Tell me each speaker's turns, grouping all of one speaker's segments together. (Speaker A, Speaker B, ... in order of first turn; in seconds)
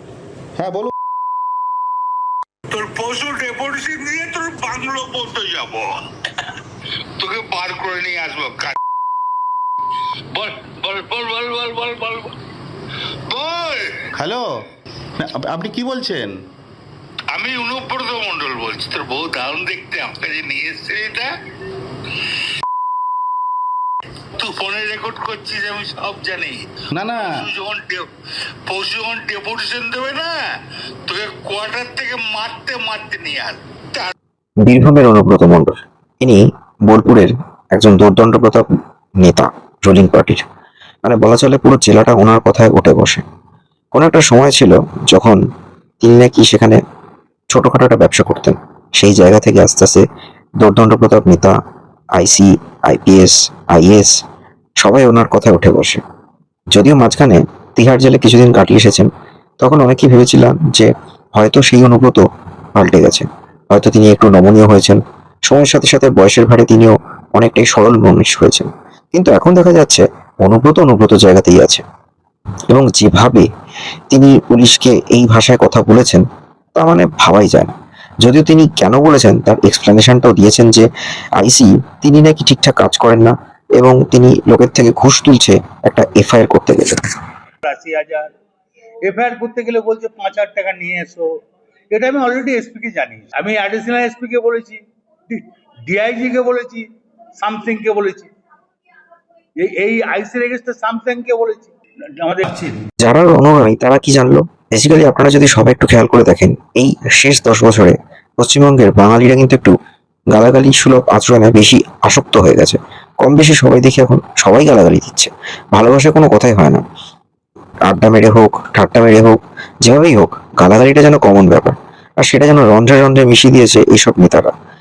Speaker A: 0.6-0.9, 14.2-14.5, 15.2-16.3, 26.9-27.5
Speaker B: 2.7-5.9, 7.2-8.7, 10.3-12.3, 13.3-14.0, 17.3-21.3, 24.4-26.6, 27.2-28.1, 28.7-30.4, 31.1-34.1
Speaker C: 34.6-38.7, 39.2-40.4, 41.0-43.2, 43.9-45.4, 46.0-46.8, 47.5-50.0, 50.6-51.5, 52.2-54.1, 54.8-56.0, 56.7-59.1, 59.6-62.2, 62.7-71.8, 72.7-73.4, 74.1-76.2, 76.8-80.9, 81.4-87.0, 103.0-109.7, 110.3-116.8, 117.9-124.5
Speaker D: 87.6-88.3, 89.0-91.3, 91.9-96.8, 97.4-98.3, 99.6-102.8